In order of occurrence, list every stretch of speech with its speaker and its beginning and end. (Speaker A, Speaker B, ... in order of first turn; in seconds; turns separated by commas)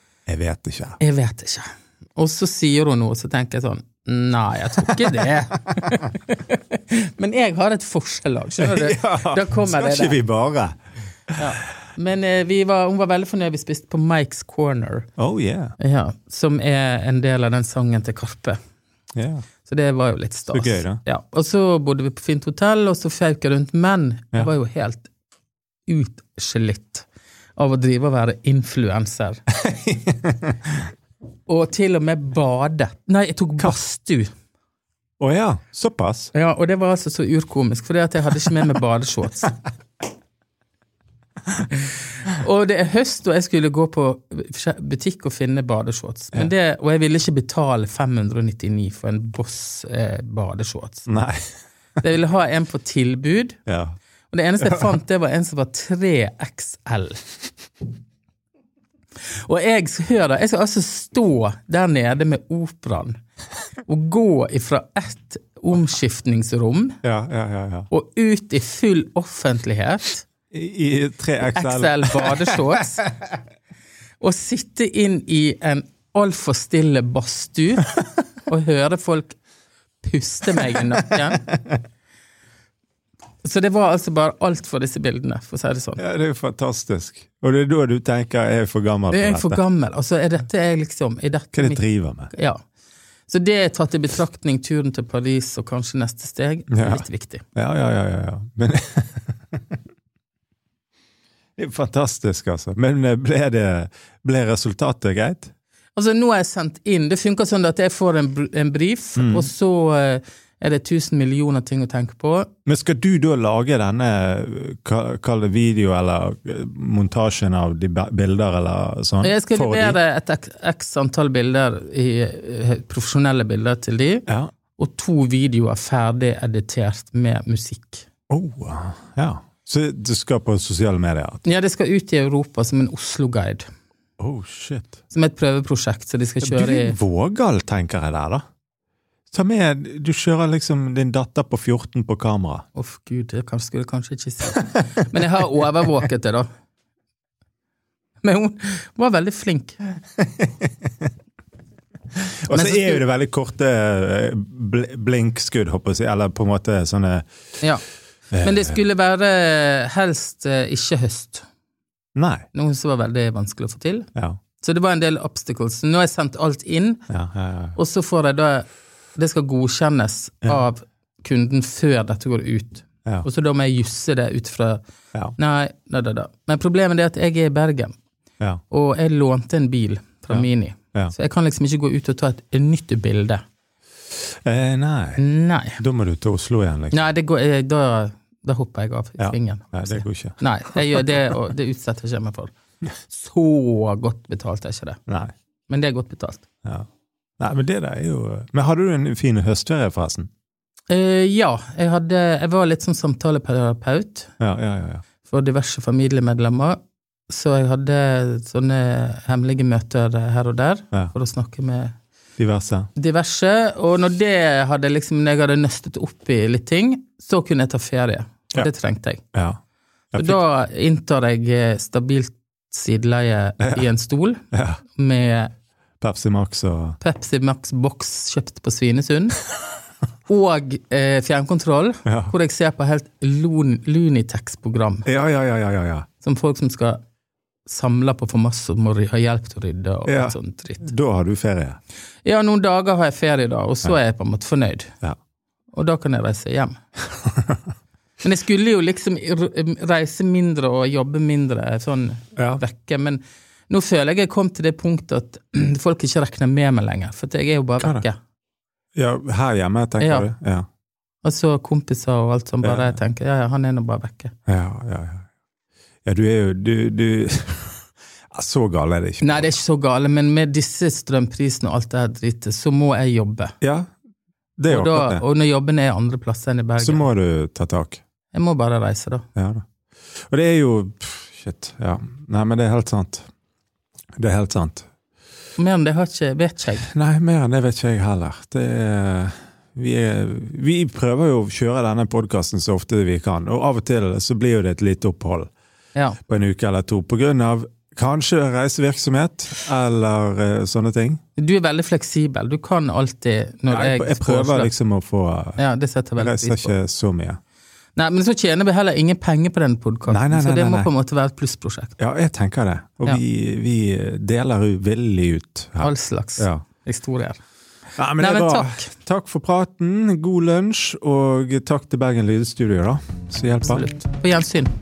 Speaker A: 0.3-1.0, Speaker B: 1.0-10.2, Speaker A: 8.6-10.8, Speaker B: 11.4-15.1, Speaker A: 15.2-15.8, Speaker B: 15.8-18.6, Speaker A: 19.1-19.4, Speaker B: 19.6-25.1, Speaker A: 20.5-21.0, Speaker B: 25.9-29.4, Speaker A: 29.5-30.9, Speaker B: 31.5-34.3, Speaker A: 35.2-36.3, Speaker B: 36.3-39.6, Speaker B: 41.7-51.1, Speaker A: 51.1-51.4, Speaker B: 52.0-53.6, Speaker A: 53.7-53.9, Speaker B: 54.3-57.2, Speaker A: 54.6-54.9, Speaker B: 59.3-63.1, Speaker B: 63.8-67.0, Speaker A: 67.0-67.9, Speaker B: 67.9-70.2, Speaker A: 70.5-72.8, Speaker B: 71.5-73.0, Speaker B: 74.2-79.4, Speaker B: 80.0-81.4, Speaker B: 83.4-86.0, Speaker A: 86.0-89.6, Speaker B: 89.1-92.6, Speaker A: 91.5-92.3, Speaker B: 93.3-97.4, Speaker A: 96.7-99.8, Speaker A: 101.6-105.5, Speaker B: 106.0-112.5, Speaker A: 109.2-109.5, Speaker A: 112.7-120.0, Speaker B: 119.2-124.2, Speaker A: 124.3-124.5, Speaker B: 124.8-128.0, Speaker A: 128.3-131.4, Speaker B: 131.4-133.6, Speaker A: 134.2-135.0, Speaker B: 135.1-136.9, Speaker A: 136.4-138.4, Speaker A: 139.3-142.6, Speaker B: 142.7-146.5, Speaker B: 148.2-149.8, Speaker A: 150.2-150.9, Speaker A: 152.2-157.2, Speaker B: 152.5-153.0, Speaker A: 158.3-158.8, Speaker B: 158.4-161.4, Speaker A: 162.2-162.5, Speaker B: 162.5-164.1, Speaker B: 164.6-167.0, Speaker A: 167.1-167.8, Speaker B: 167.8-174.8, Speaker B: 175.4-177.9, Speaker B: 178.7-183.4, Speaker A: 180.3-181.1, Speaker A: 184.4-185.2, Speaker B: 185.2-185.8, Speaker A: 185.8-187.0, Speaker B: 186.9-195.0, Speaker A: 189.2-191.0, Speaker A: 195.1-195.3, Speaker B: 195.7-196.4, Speaker A: 197.4-200.3, Speaker B: 200.9-204.3, Speaker A: 204.4-205.0, Speaker B: 205.2-206.8, Speaker B: 207.3-211.9, Speaker A: 212.4-212.9, Speaker B: 212.9-219.2, Speaker A: 219.3-219.6, Speaker A: 220.1-220.4, Speaker B: 220.2-225.5, Speaker A: 224.5-224.8, Speaker A: 226.0-227.0, Speaker B: 227.0-229.4, Speaker B: 230.3-235.1, Speaker A: 232.1-232.3, Speaker A: 235.1-236.1, Speaker B: 236.2-237.0, Speaker B: 237.7-240.9, Speaker A: 240.1-241.8, Speaker B: 242.2-244.9, Speaker B: 245.7-246.8, Speaker B: 248.2-258.2, Speaker A: 252.3-252.6, Speaker A: 258.9-260.6, Speaker B: 260.0-260.3, Speaker B: 261.2-264.3, Speaker A: 262.6-262.9, Speaker A: 264.5-265.2, Speaker A: 266.0-267.8, Speaker A: 268.3-269.5, Speaker B: 269.2-273.5, Speaker A: 273.6-273.9, Speaker A: 274.6-275.2, Speaker B: 274.7-277.1, Speaker A: 276.8-278.0, Speaker B: 278.3-279.2, Speaker A: 279.4-279.6, Speaker A: 280.2-283.2, Speaker A: 284.2-284.9, Speaker B: 285.6-286.9, Speaker A: 286.8-295.5, Speaker A: 296.3-301.2, Speaker B: 301.4-304.7, Speaker A: 303.7-305.6, Speaker B: 305.6-306.7, Speaker A: 306.2-307.4, Speaker B: 307.9-311.9, Speaker A: 310.1-310.9, Speaker A: 312.0-316.6, Speaker B: 315.8-317.4, Speaker A: 317.9-323.8, Speaker B: 318.2-318.9, Speaker B: 323.6-324.7